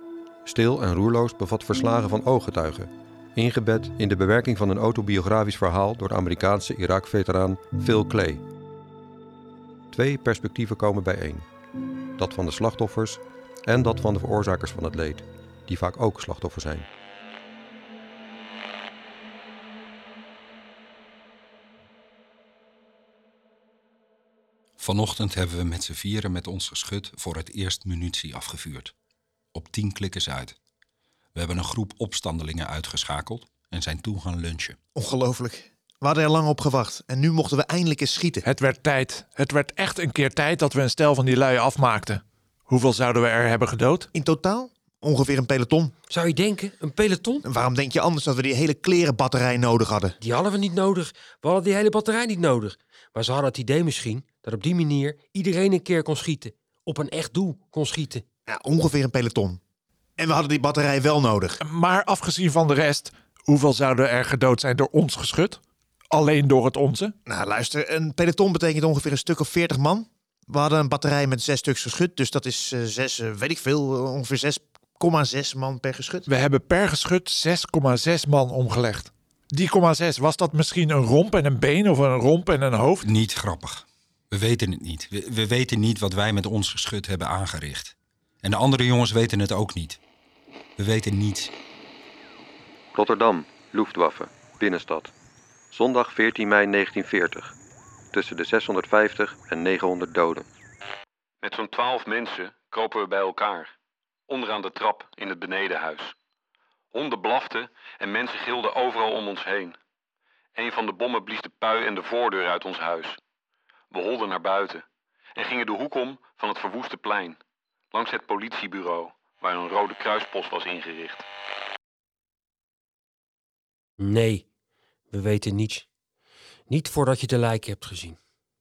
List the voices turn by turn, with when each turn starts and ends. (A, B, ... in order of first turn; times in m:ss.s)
0:00.5-0:08.4 A
0:09.9-0:11.5 A
0:12.2-0:16.9 A
0:24.8-0:28.9 B
0:29.5-0:30.6 B
0:31.4-0:34.8 B
0:35.0-0:38.5 C
0:38.4-0:44.1 D
0:44.1-0:45.9 C
0:46.1-0:47.4 E
0:47.4-0:50.2 C
0:50.2-0:58.2 E
0:58.5-0:59.6 C
1:00.2-1:01.6 C
1:01.6-1:07.2 D
1:07.3-1:16.3 C
1:16.3-1:23.1 D
1:23.0-1:30.0 B
1:30.8-1:31.5 B
1:33.0-1:35.1 A
1:35.7-1:37.6 A
1:38.1-1:40.5 A
1:41.4-1:43.7 F
1:44.3-1:46.2 F
1:46.9-1:49.8 F
1:50.6-1:53.2 F
1:53.9-1:54.8 F
1:55.4-1:57.4 F
1:57.9-2:01.3 F
2:04.0-2:04.5 E
2:05.1-2:05.9 E
2:06.7-2:08.2 E